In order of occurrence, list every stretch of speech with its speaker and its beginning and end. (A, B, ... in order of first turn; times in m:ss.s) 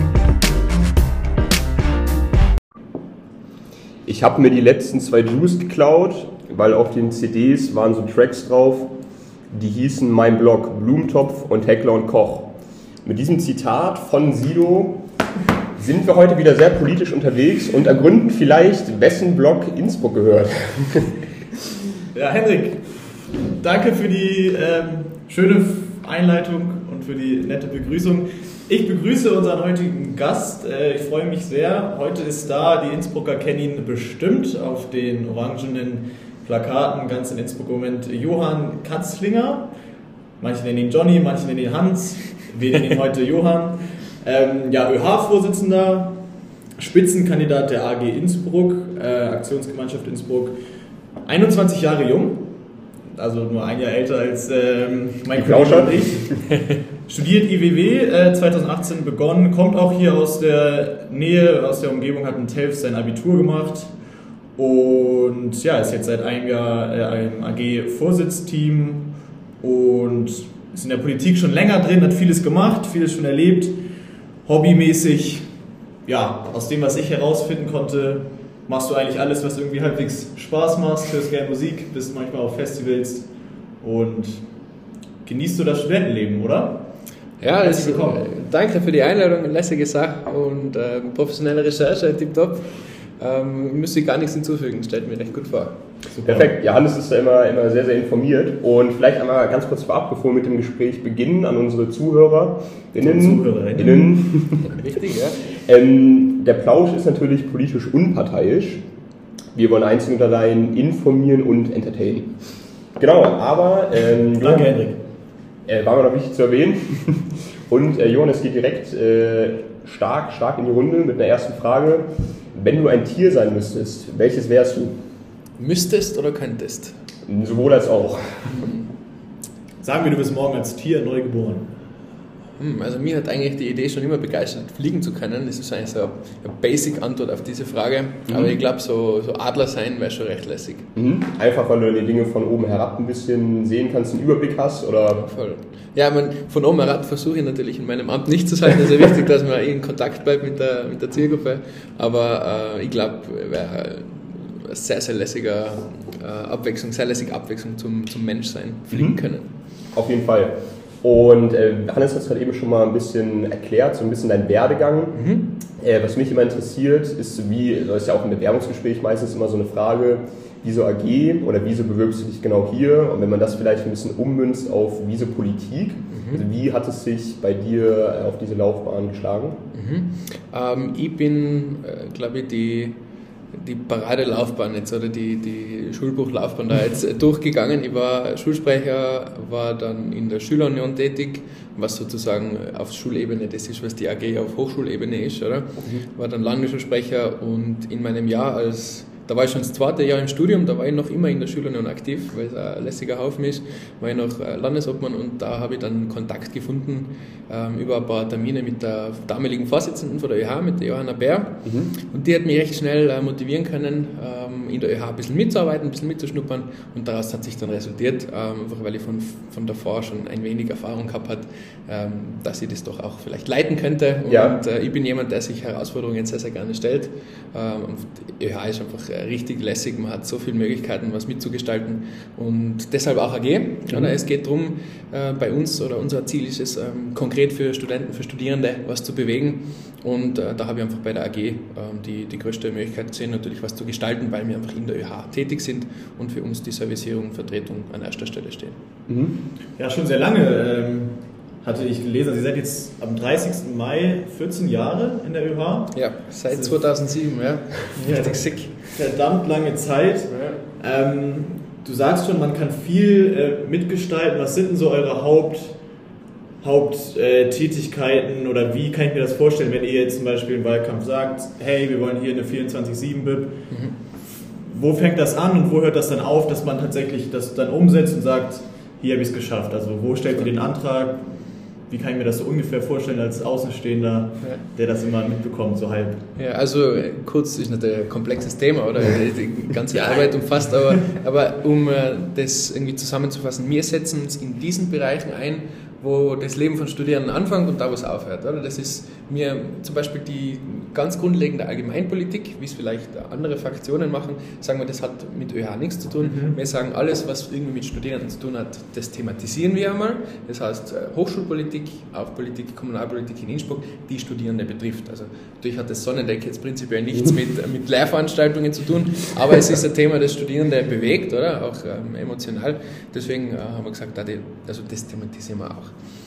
0:04.0-0:08.9 A
0:09.5-0:12.5 A
0:13.0-0:15.0 A
0:15.8-0:21.2 A
0:22.1-0:39.7 B
0:40.4-0:46.2 B
0:46.8-0:50.5 B
0:51.2-0:52.5 B
0:53.1-0:56.4 B
0:55.3-0:56.3 A
0:57.1-1:03.9 B
1:04.6-1:13.8 B
1:14.4-1:15.5 B
1:16.0-1:23.3 B
1:23.8-1:24.4 B
1:25.2-1:26.8 B
1:27.4-1:35.8 C
1:27.6-1:28.3 B
1:36.2-1:44.8 A
1:43.0-1:44.2 B
1:44.6-1:45.4 C
1:45.5-1:48.8 A
1:49.5-1:52.3 A
1:53.0-1:54.8 A
1:54.4-1:55.0 B
1:55.7-2:04.9 A
2:05.6-2:06.9 C
2:07.3-2:08.7 A
2:08.5-2:08.9 C
2:09.8-2:11.7 B
2:12.6-2:20.9 C
2:18.3-2:18.5 A
2:21.0-2:25.2 A
2:25.1-2:39.5 C
2:38.9-2:39.2 A
2:39.9-2:45.2 A
2:45.1-2:45.5 C
2:45.8-2:59.6 A
2:56.1-2:56.4 C
2:59.7-3:03.0 C
3:03.5-4:08.8 C
3:31.6-3:31.9 A
3:44.3-3:44.6 A
4:09.1-4:09.4 A
4:09.8-4:16.8 B
4:15.9-4:18.8 C
4:18.0-4:25.8 B
4:20.3-4:20.6 C
4:26.6-4:33.7 B
4:34.6-4:46.2 B
4:46.4-5:25.9 C
5:06.2-5:06.6 B